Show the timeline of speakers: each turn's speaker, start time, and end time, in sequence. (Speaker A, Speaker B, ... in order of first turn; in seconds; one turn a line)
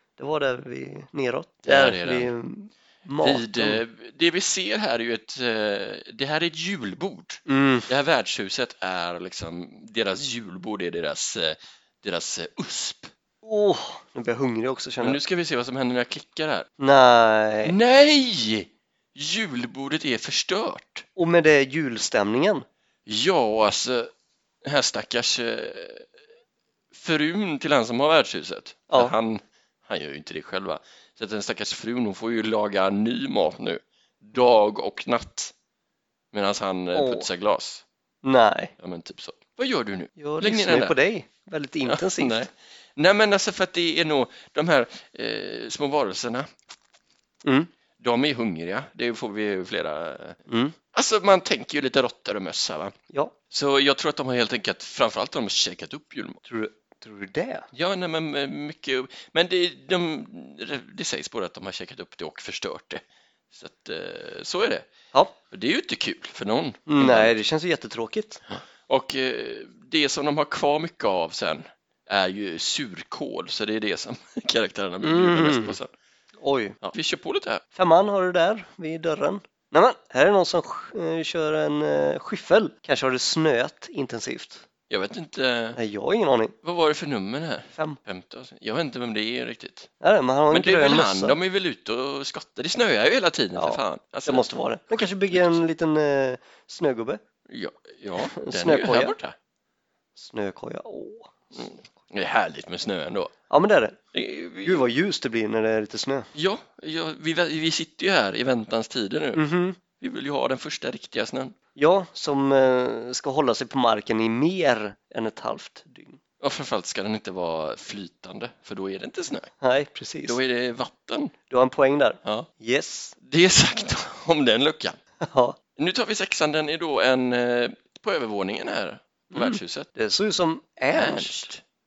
Speaker A: 0.2-3.8
Speaker B: 1.6-2.3
Speaker B: 3.2-13.1
Speaker A: 7.5-7.9
Speaker A: 13.4-15.2
Speaker B: 15.0-16.7
Speaker A: 16.8-17.8
Speaker B: 17.6-21.1
Speaker A: 21.2-22.7
Speaker B: 23.1-24.1
Speaker B: 24.6-26.1
Speaker B: 26.9-35.5
Speaker B: 36.3-37.9
Speaker A: 36.9-37.3
Speaker A: 38.2-38.7
Speaker B: 38.8-41.0
Speaker A: 40.2-42.5
Speaker B: 41.9-46.5
Speaker A: 47.4-47.7
Speaker B: 48.0-50.4
Speaker A: 50.5-50.8
Speaker B: 50.9-53.0
Speaker B: 53.5-56.4
Speaker A: 56.5-57.7
Speaker B: 57.7-64.9
Speaker B: 65.5-67.3
Speaker A: 66.9-68.4
Speaker B: 68.5-75.9
Speaker A: 75.0-75.8
Speaker A: 76.4-76.8
Speaker B: 76.8-77.6
Speaker A: 77.8-84.7
Speaker B: 84.9-85.8
Speaker A: 85.8-86.5
Speaker B: 86.6-89.9
Speaker A: 90.0-91.4
Speaker B: 90.5-95.6
Speaker A: 93.5-97.2
Speaker B: 97.5-99.3
Speaker A: 98.2-99.2
Speaker A: 100.2-101.3
Speaker B: 101.5-103.3
Speaker A: 103.5-104.0
Speaker B: 104.1-104.8
Speaker A: 104.6-106.3
Speaker B: 106.3-109.5
Speaker A: 109.3-109.8
Speaker B: 110.0-111.5
Speaker A: 111.8-116.2
Speaker B: 116.4-119.5
Speaker A: 119.6-120.4
Speaker B: 120.3-121.4
Speaker A: 121.5-123.2
Speaker B: 122.2-122.5
Speaker B: 123.2-125.0
Speaker A: 125.2-125.6
Speaker B: 125.8-129.9
Speaker A: 129.3-131.5
Speaker B: 130.9-131.6